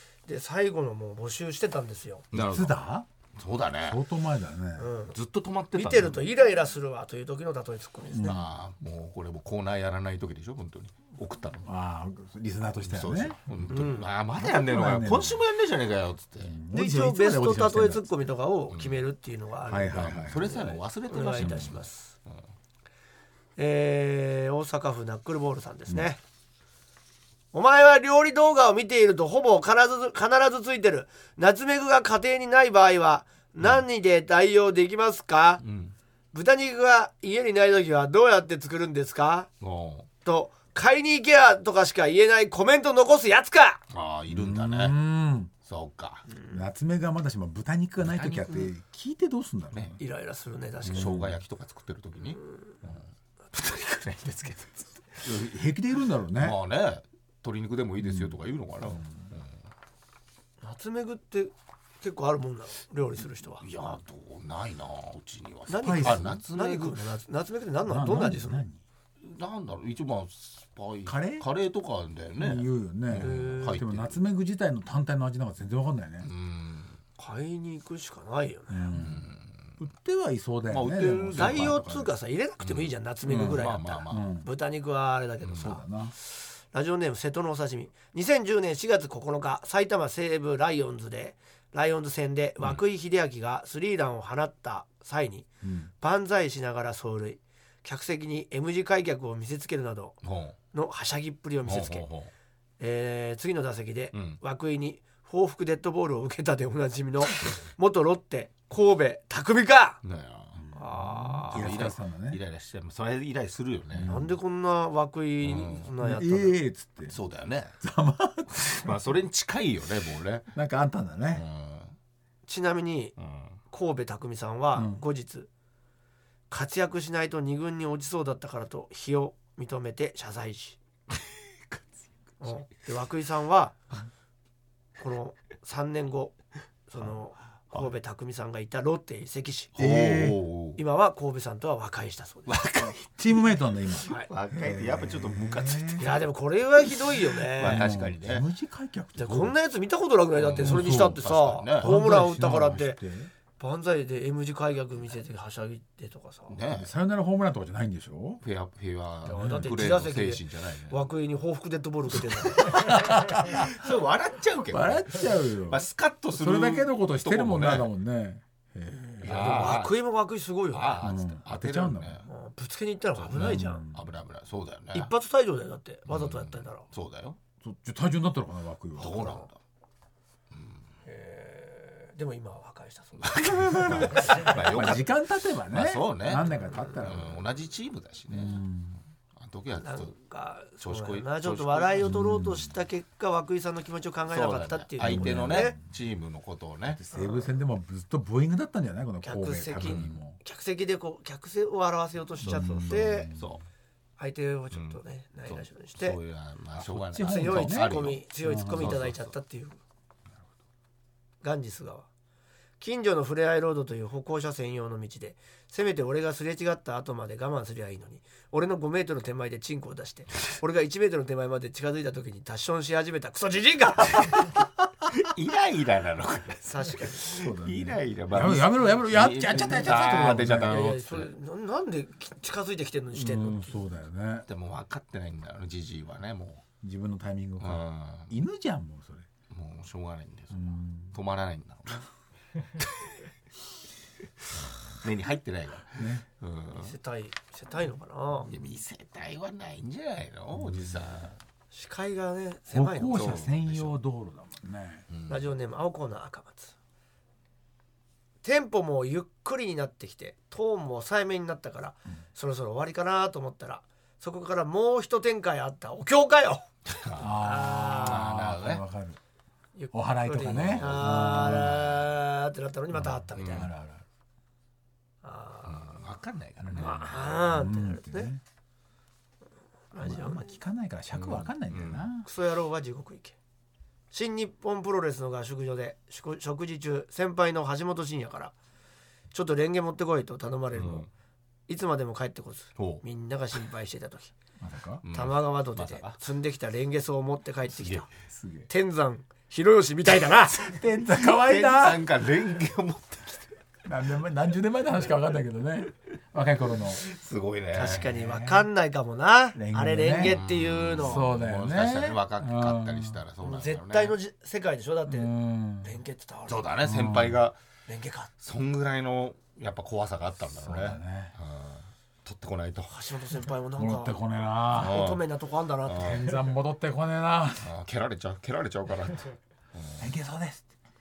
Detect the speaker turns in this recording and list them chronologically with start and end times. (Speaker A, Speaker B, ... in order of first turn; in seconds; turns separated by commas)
Speaker A: 0.2-2.3, Speaker B: 2.3-2.8, Speaker C: 2.3-3.1, Speaker B: 3.4-4.0, Speaker C: 3.8-4.9, Speaker A: 4.8-5.2, Speaker B: 5.1-6.3, Speaker A: 5.7-8.4, Speaker C: 8.1-8.5, Speaker B: 8.2-11.7, Speaker C: 11.6-15.4, Speaker B: 12.8-16.6, Speaker A: 13.7-14.1, Speaker C: 16.4-18.1, Speaker A: 16.7-22.1, Speaker B: 18.7-19.0, Speaker C: 19.7-20.7, Speaker B: 19.9-22.4, Speaker C: 21.4-21.8, Speaker A: 23.6-26.2, Speaker A: 27.5-35.6, Speaker B: 35.6-35.9, Speaker A: 36.3-39.5, Speaker B: 39.6-40.1, Speaker A: 40.2-43.8, Speaker B: 43.9-44.9, Speaker C: 44.3-45.5, Speaker B: 45.6-46.3, Speaker C: 46.5-50.0, Speaker B: 48.0-48.7, Speaker A: 50.0-51.2, Speaker C: 50.8-51.4, Speaker B: 50.9-55.3, Speaker C: 55.2-56.6, Speaker B: 56.4-59.6, Speaker C: 58.0-59.3, Speaker A: 60.6-63.6, Speaker B: 63.6-67.0, Speaker A: 65.7-68.6, Speaker C: 65.8-66.4, Speaker C: 67.8-68.8, Speaker B: 69.2-74.2, Speaker C: 71.0-71.5, Speaker C: 72.4-76.3, Speaker A: 73.2-73.8, Speaker B: 76.2-77.0, Speaker A: 77.2-78.9, Speaker C: 78.7-82.1, Speaker B: 79.0-79.8, Speaker B: 80.7-81.8, Speaker A: 81.3-95.5, Speaker B: 82.6-84.3, Speaker C: 83.3-84.5, Speaker B: 85.4-85.7, Speaker C: 85.6-86.1, Speaker C: 95.6-95.9, Speaker A: 96.0-100.2, Speaker B: 100.2-100.6, Speaker A: 100.7-102.1, Speaker B: 101.6-102.3, Speaker A: 102.8-110.0, Speaker B: 104.1-104.4, Speaker B: 110.0-110.7, Speaker C: 110.6-112.4, Speaker A: 110.7-111.9, Speaker B: 111.5-114.1, Speaker C: 113.9-114.3, Speaker A: 114.0-116.6, Speaker B: 115.4-115.9, Speaker C: 116.0-117.1, Speaker B: 117.1-117.7, Speaker C: 117.8-118.9, Speaker B: 118.7-120.5, Speaker C: 120.5-121.4, Speaker B: 121.3-122.0, Speaker A: 122.5-123.2, Speaker B: 123.2-123.6, Speaker A: 123.7-125.5, Speaker C: 124.7-125.0, Speaker A: 126.5-130.8, Speaker A: 132.4-133.8, Speaker A: 135.0-139.7, Speaker B: 139.7-140.8, Speaker C: 139.8-140.4, Speaker A: 140.8-142.6, Speaker B: 142.5-143.1, Speaker C: 142.8-146.1, Speaker B: 144.0-146.2, Speaker A: 146.0-147.8, Speaker B: 147.5-148.4, Speaker C: 147.6-149.6, Speaker A: 149.2-153.0, Speaker B: 150.3-151.9, Speaker C: 150.6-151.2, Speaker C: 151.7-153.3, Speaker A: 153.6-156.6, Speaker B: 156.5-156.9, Speaker C: 156.7-158.4, Speaker B: 158.4-161.0, Speaker A: 159.2-163.1, Speaker C: 159.3-159.7, Speaker C: 162.7-163.7, Speaker B: 162.7-167.9, Speaker C: 164.7-169.8, Speaker A: 169.2-171.1, Speaker B: 169.2-170.0, Speaker B: 170.7-172.3, Speaker C: 171.0-172.2, Speaker A: 172.2-173.9, Speaker B: 173.2-175.1, Speaker C: 173.3-174.1, Speaker A: 174.9-176.9, Speaker B: 176.1-177.4, Speaker C: 177.6-179.4, Speaker B: 179.0-179.6, Speaker A: 179.1-179.5, Speaker B: 180.5-180.9, Speaker A: 181.0-184.8, Speaker B: 183.2-185.2, Speaker C: 183.7-187.4, Speaker B: 185.7-188.6, Speaker A: 186.4-187.0, Speaker C: 188.3-189.0, Speaker B: 189.3-190.1, Speaker A: 189.8-195.8, Speaker B: 190.8-192.2, Speaker C: 192.0-192.7, Speaker B: 194.3-197.0, Speaker C: 195.0-195.9, Speaker C: 196.9-200.4, Speaker A: 197.1-197.6, Speaker A: 199.2-203.3, Speaker B: 199.8-200.2, Speaker C: 202.4-203.6, Speaker B: 202.9-203.6, Speaker A: 204.2-206.2, Speaker B: 204.7-209.3, Speaker C: 206.7-209.1, Speaker A: 207.2-209.8, Speaker A: 211.4-212.1, Speaker A: 212.8-224.5, Speaker B: 225.1-231.3, Speaker A: 226.6-227.2, Speaker C: 227.3-231.0, Speaker A: 229.9-233.8, Speaker C: 233.1-234.4, Speaker B: 234.5-236.6, Speaker C: 236.8-239.3, Speaker B: 237.6-238.3, Speaker B: 239.5-242.1, Speaker C: 240.5-241.2, Speaker B: 244.6-246.9, Speaker C: 245.9-246.2, Speaker A: 246.8-248.5, Speaker B: 248.4-251.4, Speaker C: 250.5-251.2, Speaker A: 251.7-253.5, Speaker C: 252.7-255.1, Speaker B: 253.1-253.9, Speaker B: 255.1-255.5, Speaker A: 255.3-256.7, Speaker A: 258.4-266.6, Speaker B: 266.9-267.3, Speaker C: 267.2-269.2, Speaker A: 267.2-268.3, Speaker B: 268.0-268.8, Speaker A: 269.7-273.7, Speaker C: 269.9-271.9, Speaker B: 270.4-272.0, Speaker C: 272.9-274.0, Speaker B: 273.3-273.7, Speaker A: 275.2-276.0, Speaker B: 275.6-277.2, Speaker C: 276.6-278.4, Speaker A: 276.7-278.3, Speaker A: 279.9-280.5, Speaker C: 280.0-282.3, Speaker B: 281.1-282.1, Speaker A: 282.2-283.4, Speaker A: 284.1-288.5, Speaker A: 289.3-291.1, Speaker B: 290.7-291.1, Speaker A: 291.7-294.3, Speaker B: 292.8-293.0, Speaker C: 294.6-295.0, Speaker B: 295.0-296.2, Speaker A: 295.1-298.1, Speaker B: 297.7-298.1, Speaker C: 298.3-298.7, Speaker A: 298.7-300.8, Speaker C: 300.5-302.0, Speaker B: 301.2-303.5, Speaker C: 303.8-307.0, Speaker B: 307.0-308.1, Speaker A: 307.7-311.3, Speaker C: 307.8-308.7, Speaker C: 309.5-310.4, Speaker B: 310.2-314.1, Speaker C: 311.0-313.2, Speaker A: 313.4-316.8, Speaker C: 315.1-315.9, Speaker B: 316.5-317.6, Speaker C: 316.8-317.4, Speaker A: 317.9-318.3, Speaker B: 318.4-322.9, Speaker C: 320.5-321.3, Speaker A: 322.9-324.2, Speaker C: 323.8-325.1, Speaker A: 324.7-326.3, Speaker B: 324.7-325.3, Speaker B: 325.8-326.4, Speaker C: 325.9-327.7, Speaker B: 327.6-330.1, Speaker C: 330.0-330.6